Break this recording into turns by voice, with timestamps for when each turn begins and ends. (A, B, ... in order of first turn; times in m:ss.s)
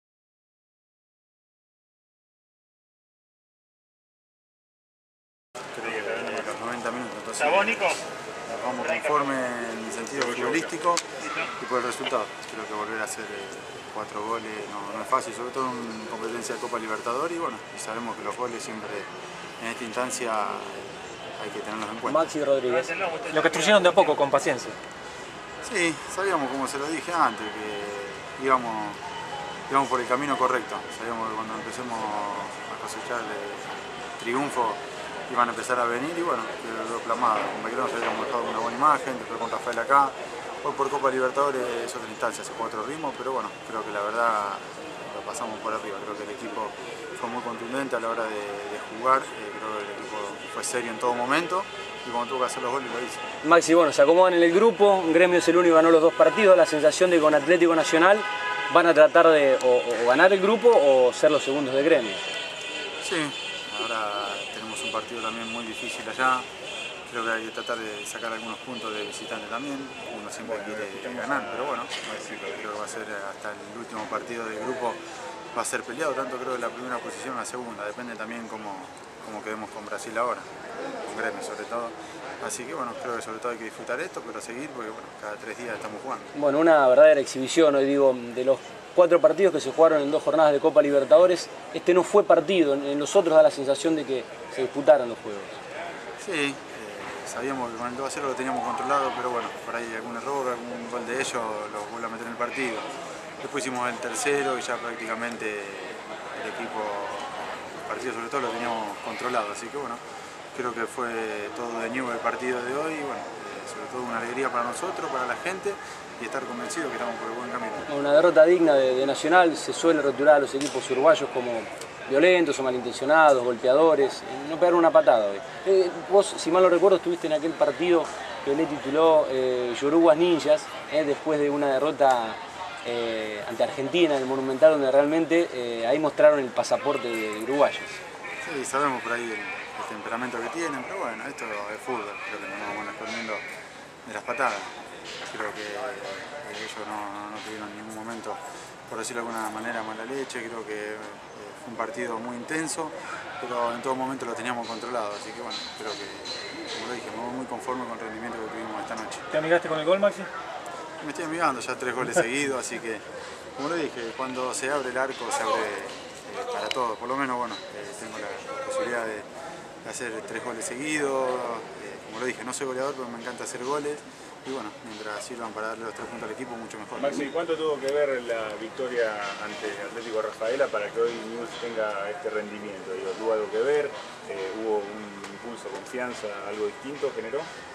0:05.8-0:19.1 A
0:05.9-0:06.4 B
0:10.2-0:10.7 B
0:19.6-0:22.3 A
0:22.0-0:23.1 C
0:23.2-0:24.8 D
0:25.6-0:29.0 A
0:29.7-0:53.2 A
0:53.4-1:02.2 C
1:03.0-1:06.5 A
1:07.1-1:15.0 A
1:10.4-1:12.6 B
1:15.5-1:26.3 A
1:26.3-1:35.6 C
1:36.2-1:42.9 A
1:43.4-1:50.0 A
1:50.5-1:57.9 A
1:57.9-2:18.0 C
2:18.4-2:23.4 A
2:24.0-2:39.3 A
2:39.3-2:40.3 D
2:41.0-2:43.0 A
2:43.6-2:49.3 A
2:49.8-2:57.2 A
2:57.0-3:07.5 B